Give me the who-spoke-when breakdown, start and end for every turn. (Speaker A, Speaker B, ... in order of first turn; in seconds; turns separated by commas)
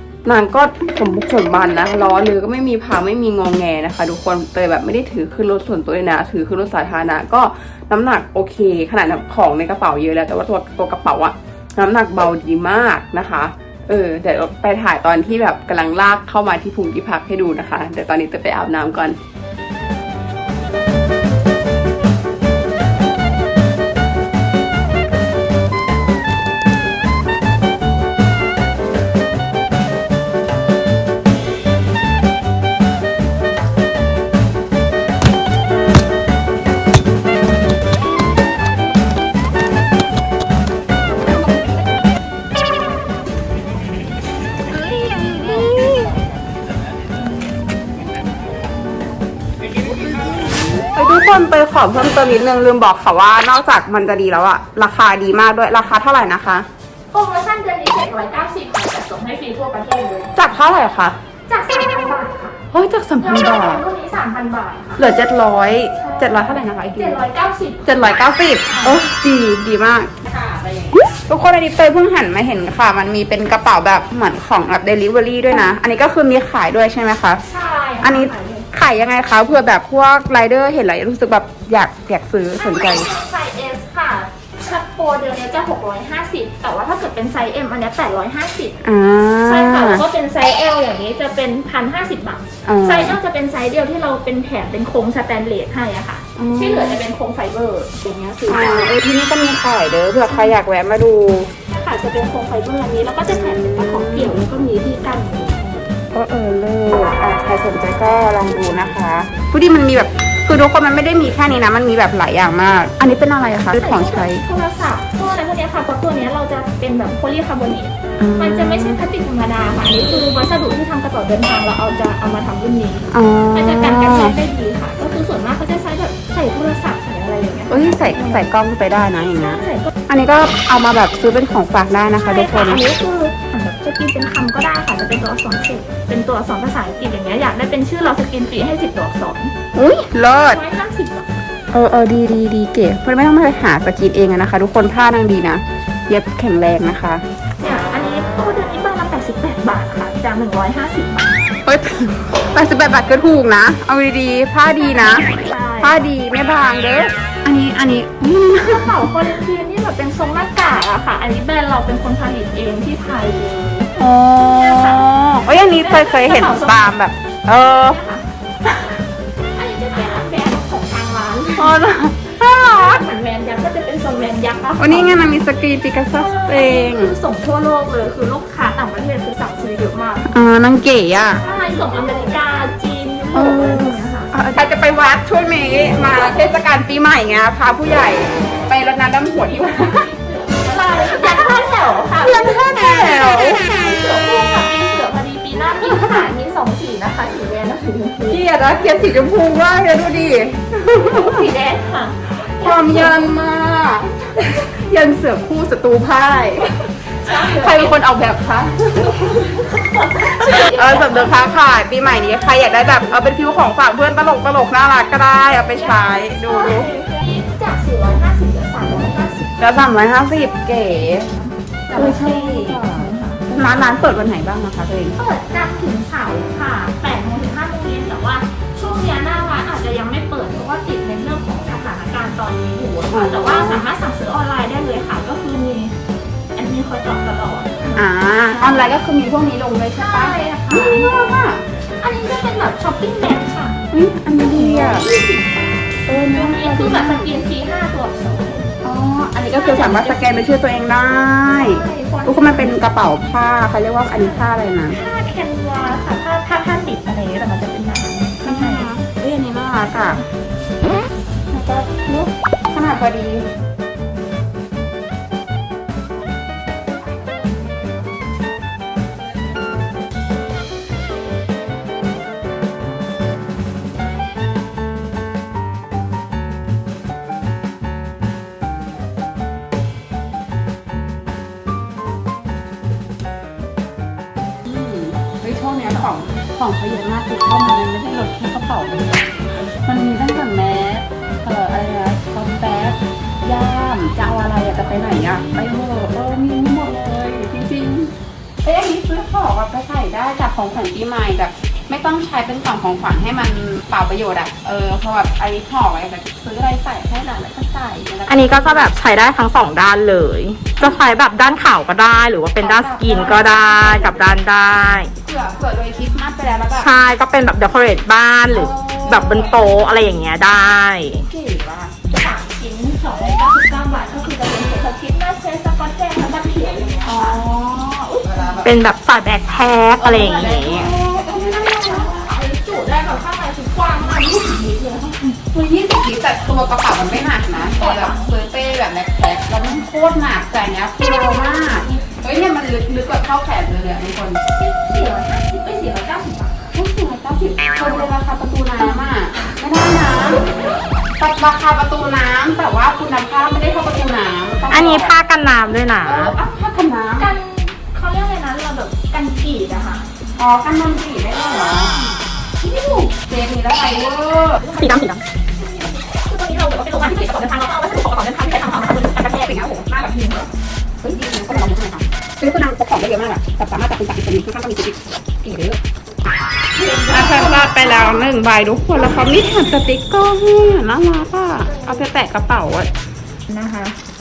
Speaker A: 0.2-19.2, Speaker A: 45.0-45.6, Speaker A: 50.8-56.7, Speaker B: 57.1-60.3, Speaker A: 60.4-61.2, Speaker B: 61.5-62.6, Speaker A: 62.7-63.8, Speaker B: 63.2-65.1, Speaker A: 65.0-67.2, Speaker B: 65.9-69.0, Speaker A: 67.9-70.2, Speaker B: 70.4-70.9, Speaker A: 71.2-77.4, Speaker B: 77.5-78.7, Speaker A: 78.0-83.1, Speaker B: 82.6-88.8, Speaker A: 88.8-90.0, Speaker B: 89.5-98.9, Speaker A: 92.7-93.2, Speaker A: 96.4-97.0, Speaker A: 98.5-101.5, Speaker B: 100.3-100.5, Speaker B: 101.8-105.9, Speaker A: 103.3-104.4, Speaker A: 106.1-114.4, Speaker B: 113.7-128.5, Speaker A: 118.2-119.0, Speaker A: 123.1-124.4, Speaker A: 127.7-132.8, Speaker B: 129.4-129.9, Speaker B: 132.3-139.5, Speaker A: 139.7-140.6, Speaker B: 140.3-141.3, Speaker A: 141.7-147.2, Speaker B: 147.6-151.5, Speaker A: 151.7-155.3, Speaker B: 154.8-156.0, Speaker A: 155.8-159.2, Speaker B: 158.6-163.9, Speaker A: 164.0-168.0, Speaker B: 164.5-167.0, Speaker B: 167.5-168.3, Speaker B: 169.6-171.8, Speaker A: 171.6-173.0, Speaker B: 172.6-175.4, Speaker A: 174.8-177.2, Speaker B: 176.1-180.3, Speaker A: 180.3-181.4, Speaker B: 181.4-184.3, Speaker A: 183.3-190.1, Speaker B: 189.4-192.7, Speaker A: 190.9-193.7, Speaker B: 193.5-198.4, Speaker A: 195.8-196.3, Speaker A: 198.3-201.5, Speaker B: 200.9-203.3, Speaker A: 202.4-206.7, Speaker B: 207.2-208.0, Speaker A: 207.3-209.5, Speaker B: 209.3-211.6, Speaker A: 210.2-216.9, Speaker B: 215.5-219.8, Speaker A: 219.6-221.3, Speaker B: 221.2-223.4, Speaker A: 221.9-225.2, Speaker B: 225.2-235.9, Speaker A: 233.1-233.8, Speaker B: 236.6-238.9, Speaker A: 237.9-241.6, Speaker B: 240.0-241.1, Speaker B: 242.0-243.8, Speaker A: 243.9-245.1, Speaker B: 244.4-248.7, Speaker A: 246.1-247.4, Speaker A: 248.8-255.0, Speaker B: 249.5-250.5, Speaker B: 251.5-252.8, Speaker B: 254.1-258.9, Speaker A: 258.4-260.2, Speaker A: 261.5-263.5, Speaker A: 284.6-289.3, Speaker A: 289.8-308.9, Speaker C: 308.3-315.1, Speaker A: 310.8-311.1, Speaker A: 312.6-314.4, Speaker B: 313.1-313.7, Speaker A: 315.2-316.9, Speaker C: 316.7-321.3, Speaker A: 318.5-319.9, Speaker A: 321.2-322.0, Speaker B: 322.1-327.4, Speaker A: 327.1-328.8, Speaker C: 328.6-330.9, Speaker A: 330.0-332.3, Speaker B: 330.5-335.4, Speaker A: 335.5-344.4, Speaker B: 337.5-338.3, Speaker B: 341.6-342.0, Speaker B: 344.6-346.7, Speaker A: 346.7-350.4, Speaker A: 351.2-355.2, Speaker C: 354.7-356.4, Speaker A: 356.0-357.3, Speaker B: 357.2-360.1, Speaker A: 360.4-362.0, Speaker B: 361.7-362.1, Speaker B: 362.6-363.1, Speaker A: 363.0-364.7, Speaker B: 364.6-369.6, Speaker C: 364.8-365.2, Speaker A: 369.2-370.5, Speaker A: 371.0-375.8, Speaker B: 376.8-378.3, Speaker A: 377.1-382.9, Speaker B: 381.6-382.1, Speaker B: 383.5-383.9